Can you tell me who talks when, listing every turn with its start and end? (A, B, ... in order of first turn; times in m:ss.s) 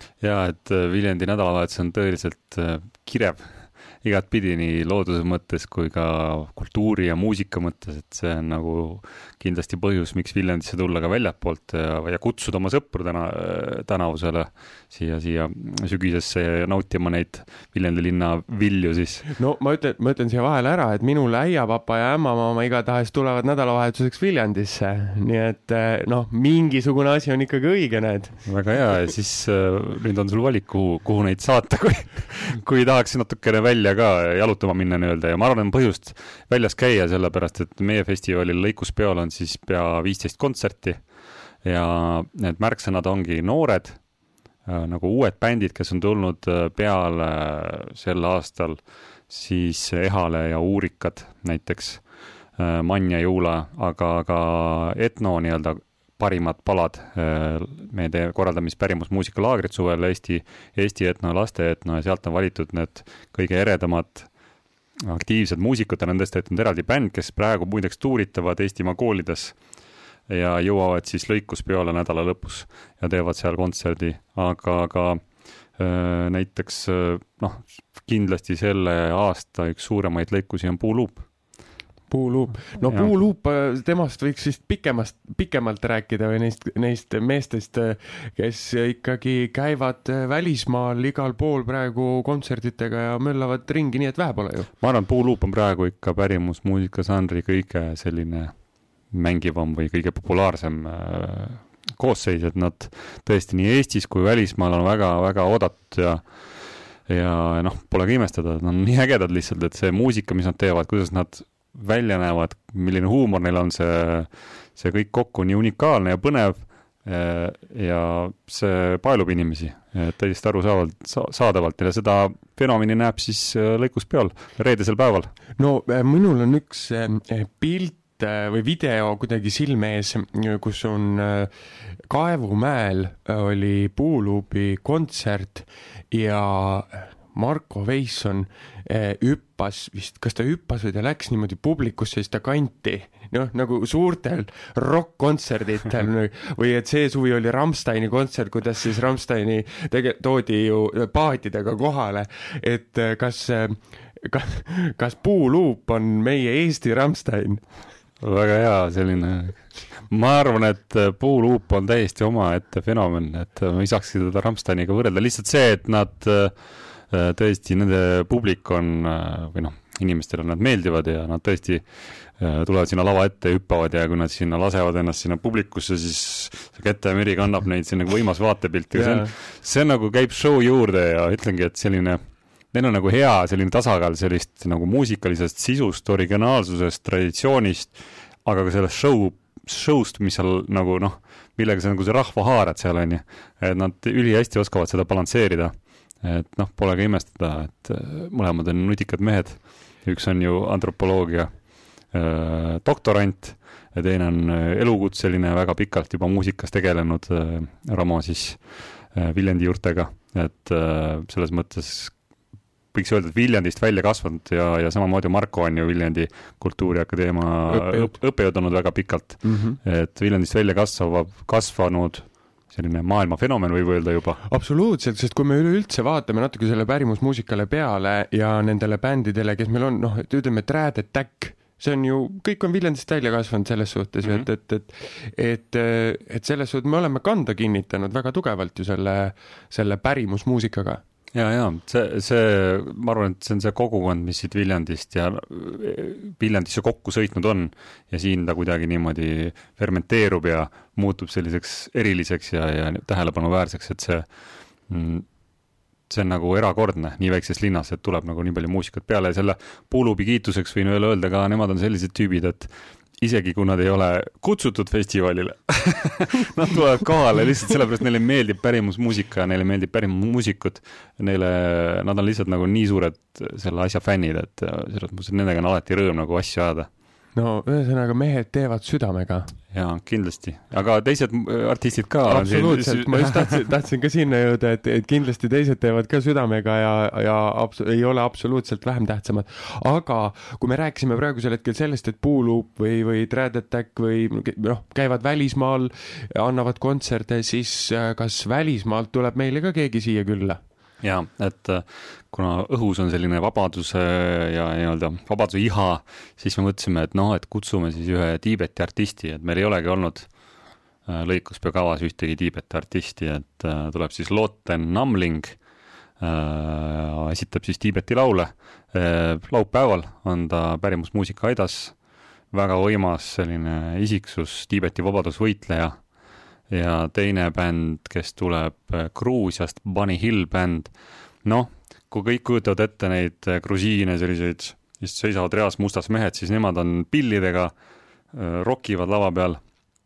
0:00.2-0:19.3 A
0:19.4-0:28.4 B
0:28.5-0:41.0 A
0:41.6-0:44.0 A
0:44.6-0:52.0 A
0:52.6-1:04.3 A
1:05.0-1:09.6 A
1:10.3-1:15.2 A
1:15.8-1:21.3 A
1:22.1-1:34.7 B
1:22.8-1:23.1 A
1:34.8-1:38.6 A
1:39.1-1:46.5 A
1:47.1-2:05.3 A
2:05.6-2:11.5 B
2:12.1-2:37.6 B
2:38.2-2:46.6 A
2:47.1-3:02.2 A
2:58.9-2:59.3 B
3:02.7-3:21.5 A
3:22.1-3:32.2 A
3:32.9-3:44.4 A
3:37.7-3:38.2 B
3:39.4-3:39.8 B
3:44.5-4:01.0 B
4:01.3-4:14.3 A
4:14.9-4:15.3 A
4:16.1-4:36.9 A
4:37.4-4:39.5 B
4:39.7-4:43.4 A
4:42.3-5:00.6 B
5:01.0-5:10.3 A
5:11.1-5:15.6 A
5:16.2-5:21.9 A
5:22.5-5:26.0 A
5:26.7-5:30.9 A
5:31.4-5:37.7 A
5:38.3-5:39.6 A